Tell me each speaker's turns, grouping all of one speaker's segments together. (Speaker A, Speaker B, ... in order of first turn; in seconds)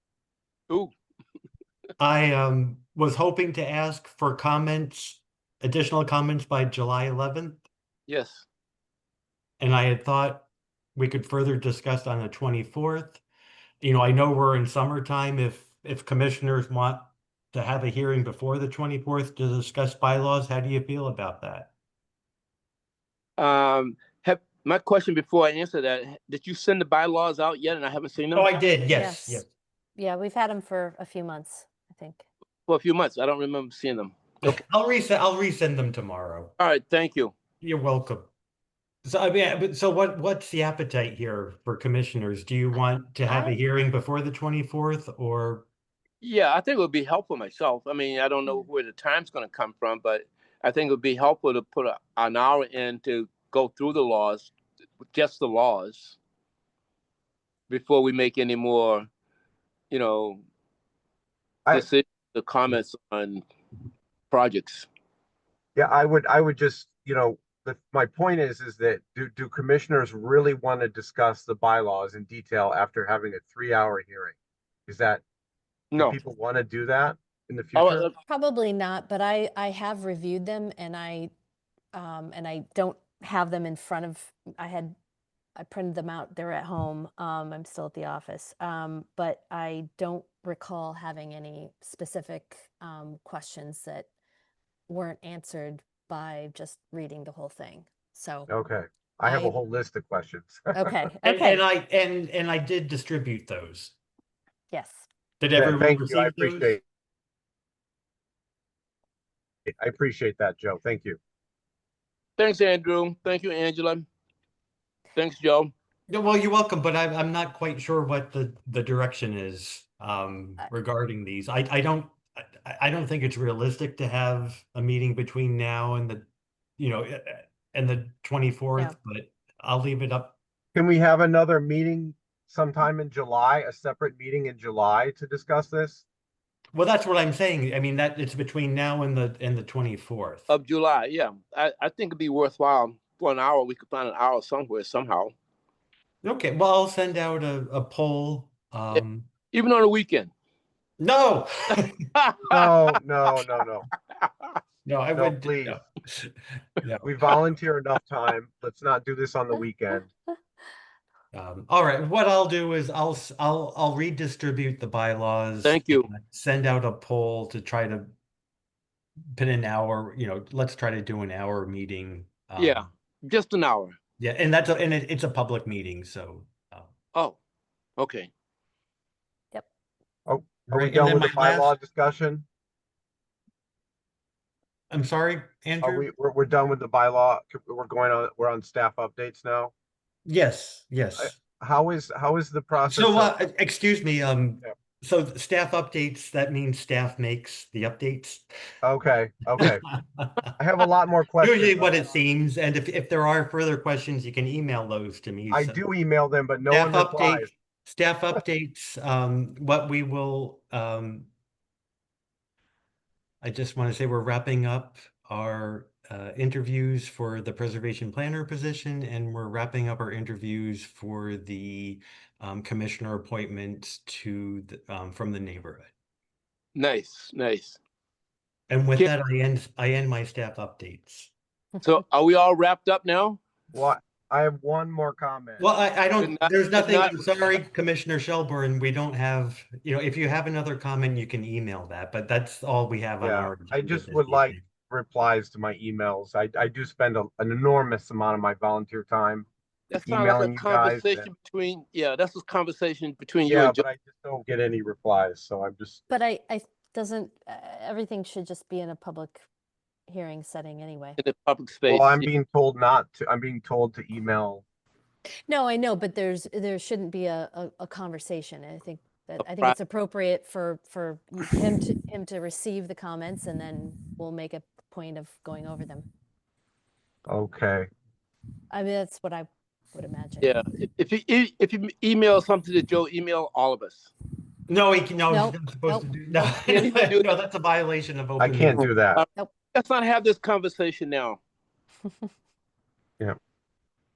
Speaker A: 2.0-7.6, 9.6-13.2, 13.8-21.7, 28.3-29.5, 34.4-36.5, 37.6-38.3, 39.0-45.7, 101.2-103.9, 105.4-106.8, 116.1-126.2, 126.8-130.3, 136.7-140.5, 146.2-149.3, 151.0-151.9, 154.8-157.0, 161.3-168.1, 169.3-172.9, 174.2-176.9, 180.7-181.7, 184.9-186.1, 190.2-191.4, 192.8-198.4, 199.6-200.5, 201.4-205.8, 206.7-211.3, 213.4-225.9, 228.7-231.3, 235.6-244.6, 284.7-288.9
Speaker B: 8.1-8.4, 23.4-28.5, 32.7-34.2, 36.6-37.3, 46.2-54.5, 55.1-56.2, 57.7-59.1, 59.9-60.4, 61.7-63.4, 64.3-64.9, 75.9-76.2, 77.7-78.2, 112.4-114.0, 115.1-115.7, 140.5-145.3, 148.9-150.3, 152.2-152.6, 154.2-154.6, 165.6-166.1, 172.6-174.0, 178.0-178.3, 226.7-227.8, 231.8-233.4, 236.2-237.5, 249.9-253.8, 261.2-262.3, 269.4-269.7, 280.4-284.1, 286.5-287.3, 289.1-291.4
Speaker C: 28.9-29.4, 29.9-32.2, 43.2-43.6, 78.3-81.3, 81.9-84.9, 85.6-94.1, 94.9-98.5, 99.2-99.5, 100.7-101.6, 104.7-105.0, 256.1-259.4, 260.1-261.2, 265.5-276.1, 278.7-280.5, 285.3-286.1
Speaker D: 65.7-74.3, 74.9-75.2, 76.0-78.1, 98.5-100.9, 105.5-106.8, 109.8-111.2, 130.7-136.0, 152.5-153.9, 155.1-155.8, 157.0-160.1, 180.3-182.4, 185.8-189.7, 191.2-193.4, 198.8-199.8, 200.6-202.0, 205.5-207.5, 233.7-235.7, 243.2-249.5, 250.1-251.3, 253.4-256.0, 261.9-264.6, 277.3-277.9, 288.4-289.2